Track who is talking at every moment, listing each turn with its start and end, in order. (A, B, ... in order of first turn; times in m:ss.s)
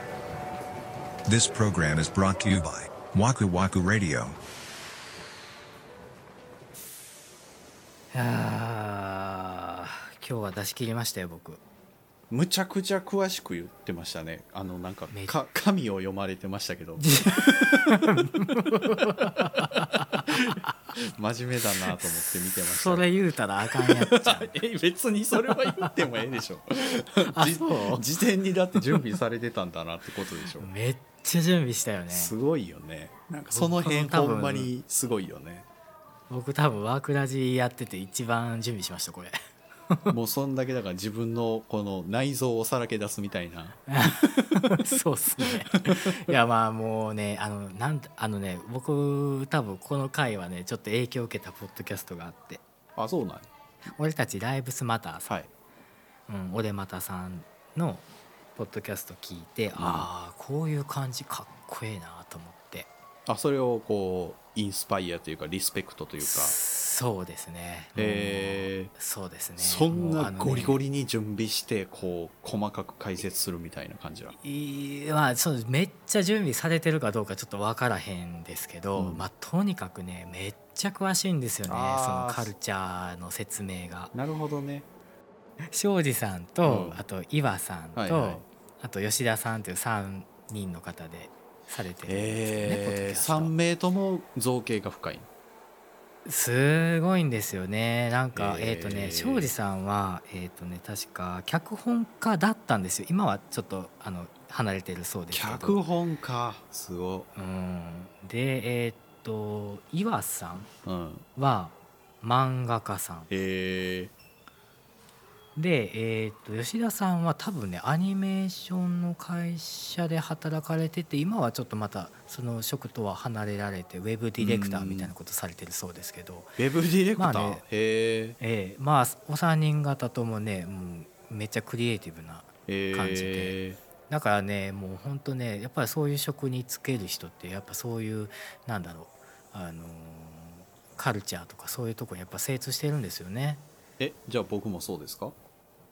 0:01.3-0:04.4 A
0:08.1-0:11.6 B
0:12.3-0:18.0 C
0:17.0-0:20.7 B
0:20.3-0:23.0 C
0:21.8-0:22.0 B
0:22.6-0:24.5 B
0:23.7-0:30.7 C
0:25.4-0:26.4 B
0:27.2-0:28.0 B
0:30.6-0:32.3 B
0:32.1-0:35.7 C
0:33.5-0:34.7 B
0:36.3-0:39.3 B
0:40.1-0:43.8 C
0:43.9-0:52.6 B
0:45.4-0:46.4 C
0:53.0-0:53.5 C
0:53.9-0:55.4 B
0:56.3-0:58.0 B
0:58.6-1:02.9 B
0:59.8-1:00.1 C
1:03.2-1:06.6 C
1:06.2-1:10.8 B
1:08.0-1:08.9 C
1:09.6-1:14.4 C
1:14.3-1:24.1 B
1:19.0-1:19.3 C
1:21.7-1:22.5 C
1:24.1-1:24.9 C
1:25.7-1:33.5 B
1:26.6-1:27.0 C
1:28.0-1:28.4 C
1:32.0-1:35.3 C
1:36.2-1:45.8 B
1:38.3-1:39.5 C
1:45.3-1:47.3 C
1:47.3-1:50.7 B
1:50.8-1:51.2 C
1:51.4-1:53.3 B
1:53.3-1:54.1 C
1:55.6-2:06.6 B
2:04.4-2:05.1 C
2:06.6-2:08.4 C
2:07.2-2:07.6 B
2:08.4-2:13.6 B
2:12.7-2:13.8 C
2:14.1-2:23.6 B
2:24.0-2:25.3 C